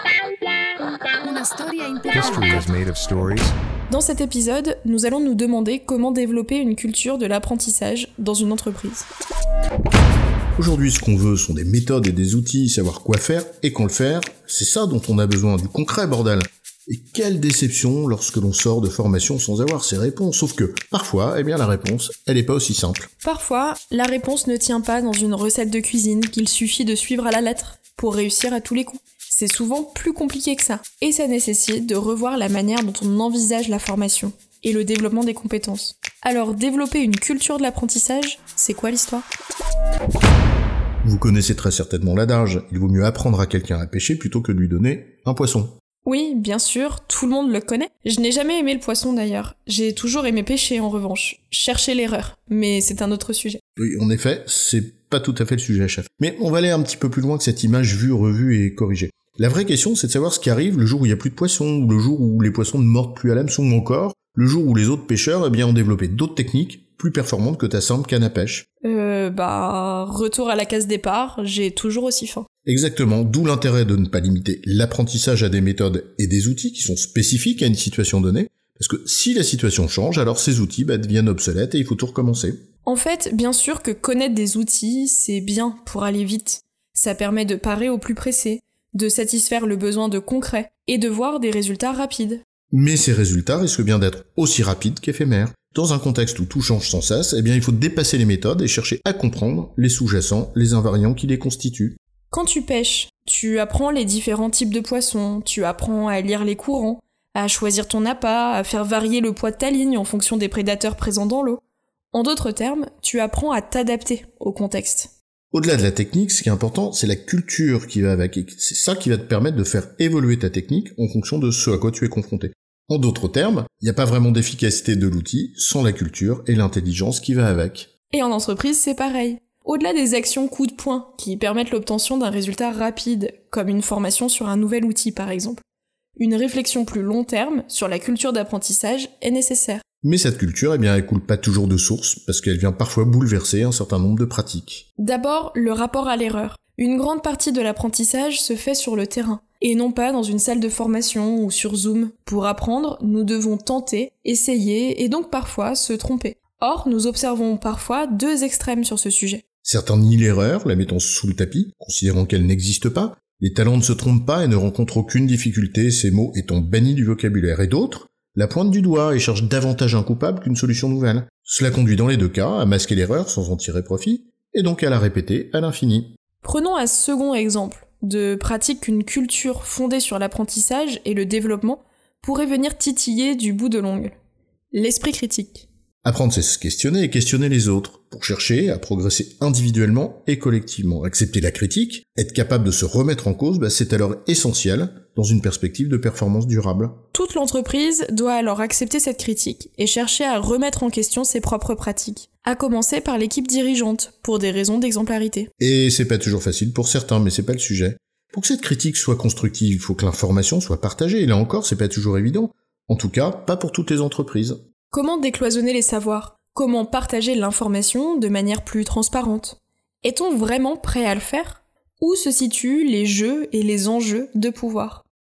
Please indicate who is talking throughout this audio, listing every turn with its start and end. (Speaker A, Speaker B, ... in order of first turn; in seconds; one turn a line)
Speaker A: 1.2-3.6
Speaker B: 3.9-9.1
Speaker C: 10.6-23.1
Speaker B: 23.2-39.3
Speaker C: 41.0-45.7
Speaker B: 46.0-53.6
Speaker C: 53.8-68.7
Speaker B: 68.8-72.5
Speaker C: 72.7-82.6
Speaker B: 82.8-92.4
Speaker C: 92.7-102.0
Speaker B: 102.3-111.6
Speaker B: 112.1-115.1
Speaker C: 115.5-127.9
Speaker B: 128.1-135.6
Speaker B: 136.2-139.8
Speaker C: 140.0-144.8
Speaker B: 145.0-159.4
Speaker C: 159.6-176.1
Speaker B: 176.4-184.1
Speaker B: 184.7-185.7
Speaker C: 186.0-197.0
Speaker B: 197.1-205.5
Speaker C: 205.6-214.6
Speaker B: 214.9-225.0